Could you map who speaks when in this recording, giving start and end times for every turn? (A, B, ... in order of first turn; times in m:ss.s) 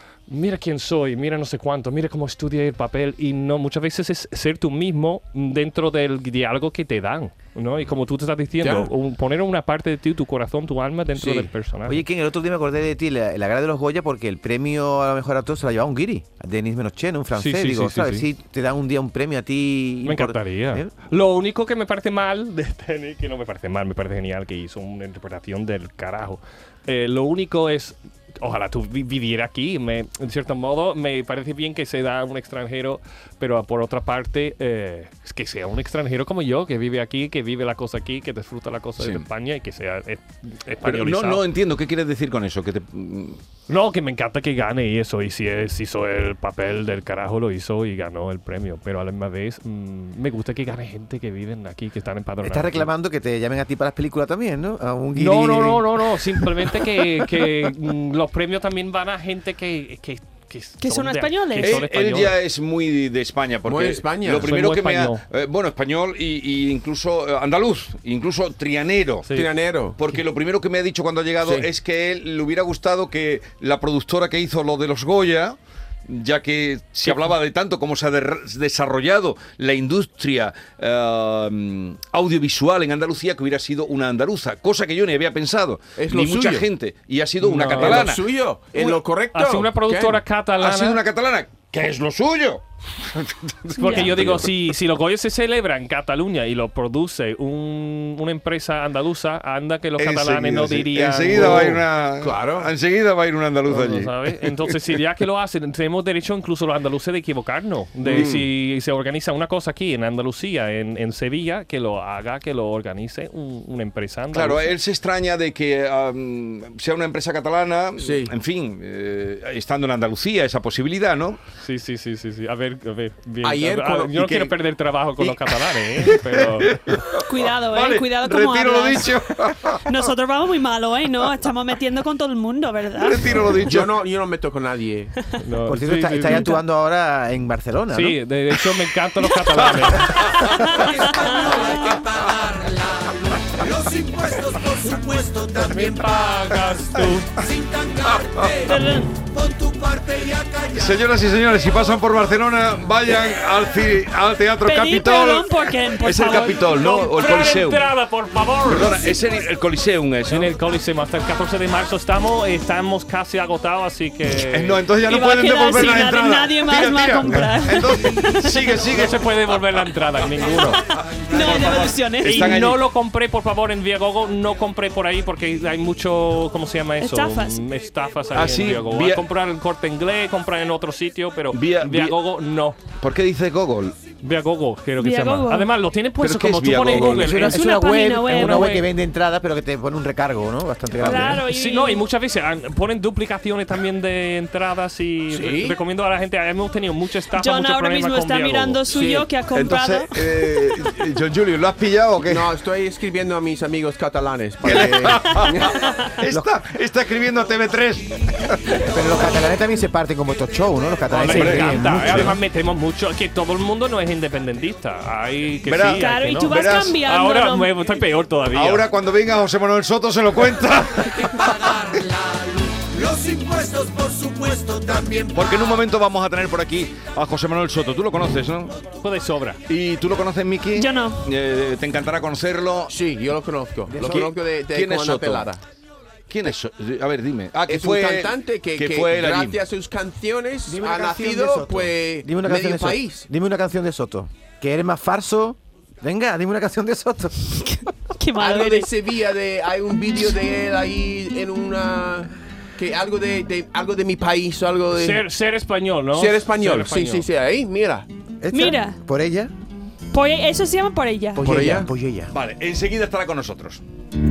0:00.3-0:12.0 A
0:08.6-0:08.9 B
0:11.2-0:11.5 B
0:11.9-0:20.9 C
0:17.4-0:18.2 A
0:20.0-0:41.4 A
0:39.0-0:39.2 D
0:40.8-0:43.4 D
0:43.7-0:52.9 A
0:52.4-0:56.7 C
0:55.1-1:02.3 A
1:00.8-1:01.8 E
1:01.6-1:09.3 D
1:03.6-1:04.6 B
1:04.4-1:05.2 A
1:09.3-1:10.0 B
1:10.0-1:29.0 D
1:11.4-1:11.7 B
1:17.0-1:17.3 A
1:26.0-1:26.7 B
1:27.4-1:28.1 A
1:27.4-1:30.2 B
1:29.3-1:31.0 A
1:30.6-1:34.5 D
1:33.8-1:34.1 E
1:33.8-1:41.8 A
1:40.0-1:44.7 D
1:41.3-1:42.7 B
1:43.7-1:54.7 A
1:48.0-1:48.3 D
1:48.1-1:48.4 B
1:54.3-2:01.4 D
1:58.0-1:58.3 B
2:01.6-2:06.8 A
2:03.4-2:04.5 B
2:06.4-2:10.0 D
2:07.2-2:09.2 E
2:09.7-2:13.5 E
2:13.0-2:14.0 D
2:13.6-2:15.1 B
2:15.4-2:16.6 A
2:15.7-2:18.2 C
2:17.9-2:20.3 A
2:20.2-2:21.9 E
2:21.9-2:25.3 D
2:25.5-2:27.3 A
2:28.0-2:28.7 D
2:28.6-2:29.2 E
2:30.2-2:37.9 D
2:34.6-2:37.1 E
2:36.6-2:39.0 A
2:38.6-2:40.5 D
2:40.3-2:44.8 A
2:44.4-2:49.2 D
2:45.0-2:48.7 E
2:48.9-2:50.8 A
2:51.2-2:52.8 D
2:51.3-2:52.5 E
2:52.2-3:02.8 A
2:57.0-2:57.6 E
2:58.3-2:59.2 D
3:01.5-3:02.2 D
3:03.0-3:04.0 D
3:04.2-3:07.7 A
3:05.0-3:05.7 E
3:06.2-3:07.5 D
3:06.9-3:11.4 C
3:07.4-3:08.8 E
3:08.3-3:08.8 A
3:11.0-3:12.0 E
3:11.2-3:18.8 A
3:15.3-3:15.8 B
3:17.3-3:20.4 E
3:18.9-3:19.3 B
3:19.5-3:22.5 D
3:22.2-3:25.8 B
3:24.6-3:28.9 D
3:28.8-3:32.4 C
3:31.1-3:38.9 A
3:31.2-3:32.3 D
3:35.6-3:37.0 D
3:36.0-3:38.0 E
3:38.5-3:42.0 D
3:45.2-3:48.8 D
3:49.0-3:49.6 A
3:49.7-3:52.9 D
3:50.7-3:51.2 E
3:52.9-3:55.6 B
3:53.9-3:54.3 C
3:54.0-3:55.5 D
3:56.3-3:59.6 D
3:57.7-4:03.3 B
4:00.6-4:07.5 C
4:07.6-4:08.9 E
4:08.4-4:15.2 B
4:14.9-4:17.3 A
4:16.1-4:18.1 B
4:18.4-4:19.5 C
4:18.5-4:19.0 E
4:20.1-4:21.6 E
4:21.4-4:21.9 B
4:21.4-4:22.3 C
4:22.3-4:23.8 D